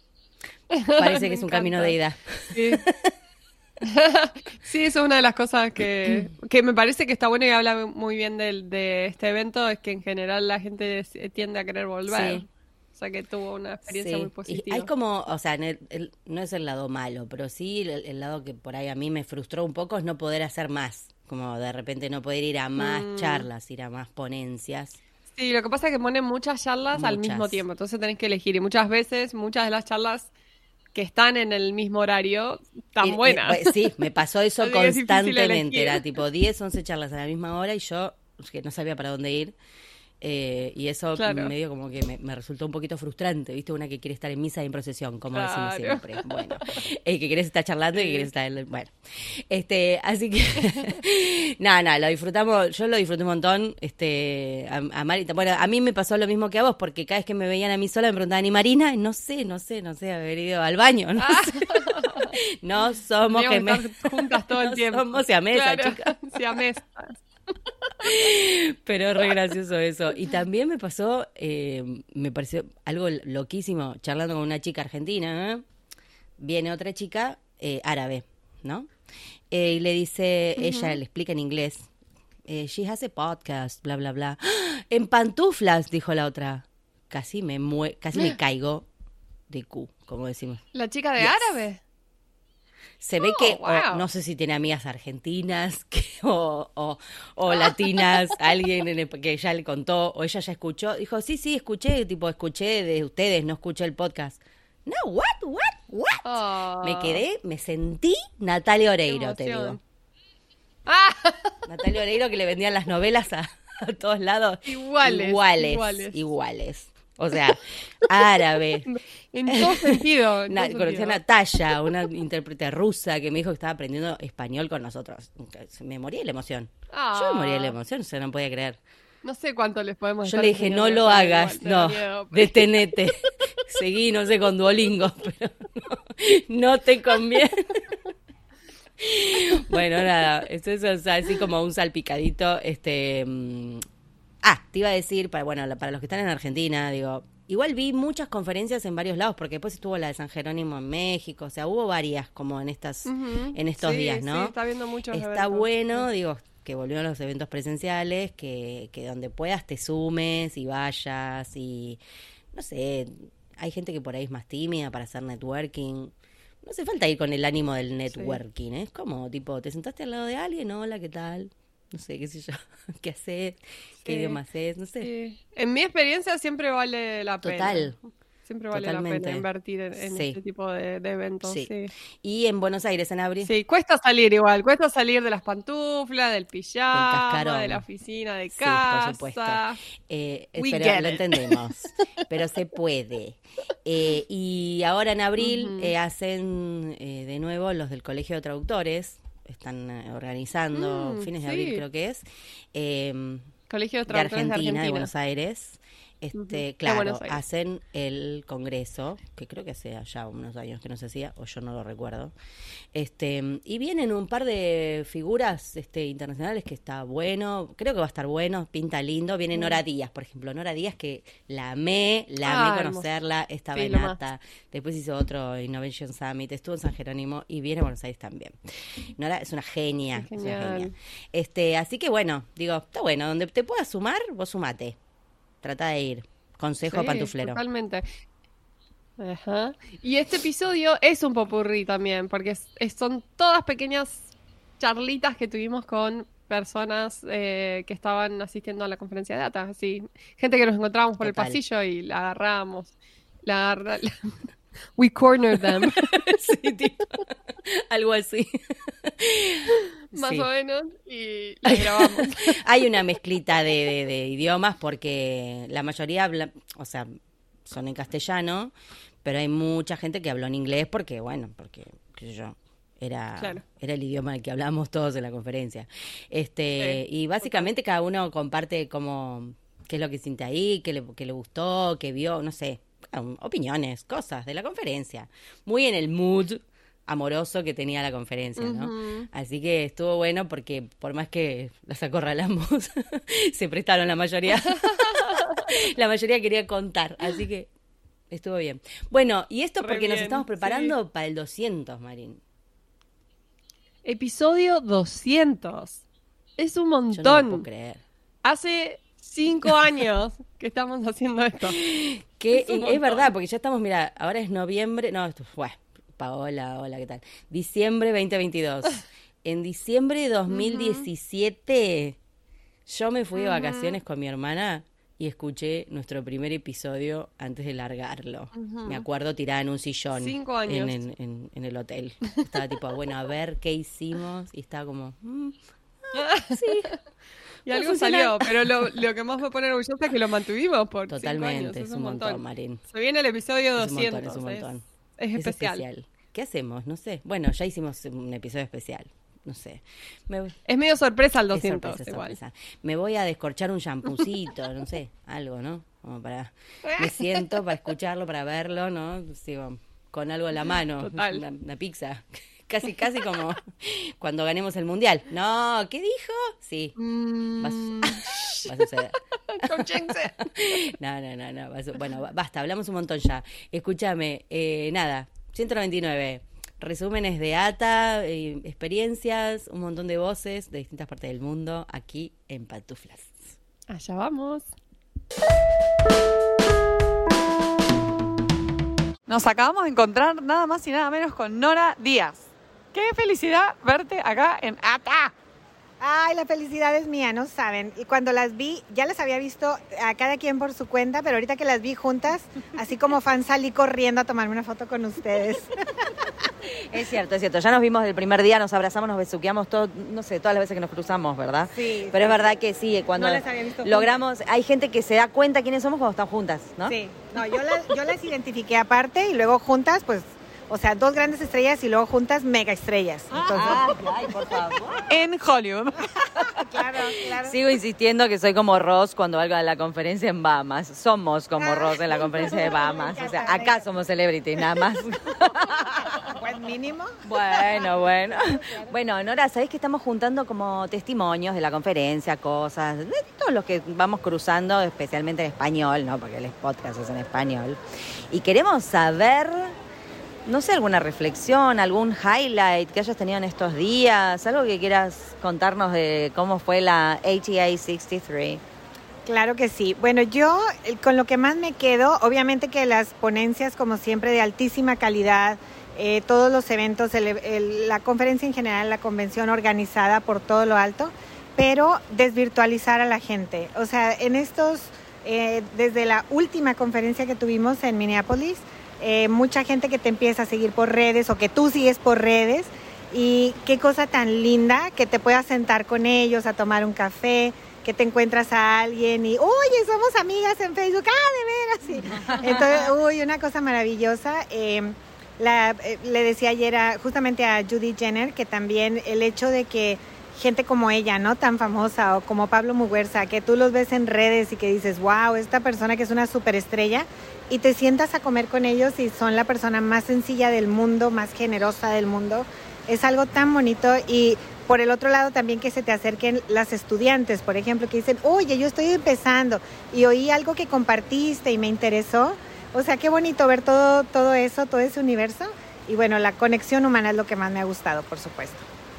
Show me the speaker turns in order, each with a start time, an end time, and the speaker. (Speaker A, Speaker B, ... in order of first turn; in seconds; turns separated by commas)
Speaker A: 0.8-2.0, Speaker B: 1.0-2.9, Speaker A: 2.5-2.8, Speaker A: 3.9-14.9, Speaker B: 6.0-6.3, Speaker B: 12.1-12.4, Speaker B: 13.9-25.0, Speaker A: 22.8-23.5, Speaker A: 25.4-30.3, Speaker B: 26.9-27.6, Speaker A: 30.9-33.8, Speaker B: 33.0-39.5, Speaker A: 34.6-36.1, Speaker B: 40.2-48.9, Speaker A: 41.2-41.5, Speaker A: 45.3-46.6, Speaker A: 47.9-48.3, Speaker B: 49.5-66.3, Speaker A: 61.2-62.3, Speaker A: 63.3-67.2, Speaker B: 68.1-75.6, Speaker B: 76.4-78.9, Speaker B: 79.5-81.8, Speaker A: 80.6-81.0, Speaker B: 82.5-88.8, Speaker B: 89.5-90.6, Speaker A: 90.7-91.8, Speaker B: 91.2-91.6, Speaker B: 93.0-106.2, Speaker A: 93.2-94.0, Speaker A: 97.5-98.2, Speaker A: 106.2-107.2, Speaker B: 106.8-109.8, Speaker A: 109.0-109.8, Speaker A: 110.9-111.5, Speaker B: 111.7-128.8, Speaker A: 114.6-116.2, Speaker A: 118.9-121.2, Speaker A: 126.9-127.8, Speaker A: 129.2-133.0, Speaker B: 130.2-133.2, Speaker B: 133.7-137.7, Speaker B: 139.0-143.8, Speaker B: 144.4-154.5, Speaker A: 153.1-156.1, Speaker B: 155.1-162.0, Speaker B: 162.5-166.1, Speaker B: 166.6-175.1, Speaker A: 168.1-168.4, Speaker A: 174.0-174.4, Speaker A: 175.0-181.9, Speaker B: 177.4-177.9, Speaker B: 178.7-180.4, Speaker B: 181.4-183.5, Speaker A: 183.4-189.8, Speaker B: 186.9-187.8, Speaker B: 188.5-203.5, Speaker A: 190.6-191.6, Speaker A: 195.4-195.9, Speaker A: 200.7-201.8, Speaker A: 203.7-205.1, Speaker B: 204.1-212.3, Speaker A: 206.3-207.4, Speaker B: 212.9-228.6, Speaker A: 219.5-219.8, Speaker A: 222.4-223.1, Speaker A: 223.7-224.2, Speaker B: 229.2-234.9, Speaker A: 230.1-230.9, Speaker B: 235.6-237.6, Speaker A: 236.8-238.1, Speaker A: 239.2-252.9, Speaker B: 251.2-251.6, Speaker A: 253.4-254.3, Speaker A: 255.0-256.0, Speaker B: 255.6-257.2, Speaker B: 257.7-258.5, Speaker B: 259.2-260.5, Speaker A: 260.1-262.5, Speaker B: 261.6-267.1, Speaker B: 267.6-268.7, Speaker B: 269.2-297.7, Speaker A: 273.4-273.6, Speaker A: 276.8-277.7, Speaker A: 288.6-289.3, Speaker B: 298.3-302.4, Speaker A: 299.8-300.9, Speaker A: 304.0-306.0, Speaker A: 306.6-307.6, Speaker B: 307.1-308.0, Speaker A: 308.4-311.8, Speaker B: 311.6-322.1, Speaker A: 312.5-313.3, Speaker A: 320.5-321.1, Speaker B: 322.9-335.6, Speaker A: 323.3-324.0, Speaker A: 328.5-329.1, Speaker A: 330.1-331.0, Speaker B: 336.1-336.9, Speaker A: 336.2-336.6, Speaker A: 337.6-345.8, Speaker B: 337.7-338.9, Speaker B: 341.1-342.8, Speaker B: 343.8-344.8, Speaker B: 345.3-350.6, Speaker A: 350.7-352.4, Speaker B: 351.5-366.9, Speaker A: 356.9-357.5, Speaker A: 361.0-361.4, Speaker A: 367.0-368.7, Speaker B: 367.6-369.1, Speaker A: 369.6-370.4, Speaker B: 370.6-383.5, Speaker A: 383.9-384.7, Speaker C: 389.3-395.3, Speaker D: 396.0-405.7, Speaker E: 406.9-416.9, Speaker D: 411.7-412.3, Speaker D: 413.2-413.9, Speaker D: 416.9-423.9, Speaker E: 423.5-424.9, Speaker C: 425.1-425.9, Speaker D: 426.6-427.6, Speaker E: 427.4-435.3, Speaker D: 431.6-433.8, Speaker D: 436.1-437.9, Speaker E: 437.2-447.8, Speaker E: 448.3-449.7, Speaker E: 450.4-458.6, Speaker D: 459.2-528.6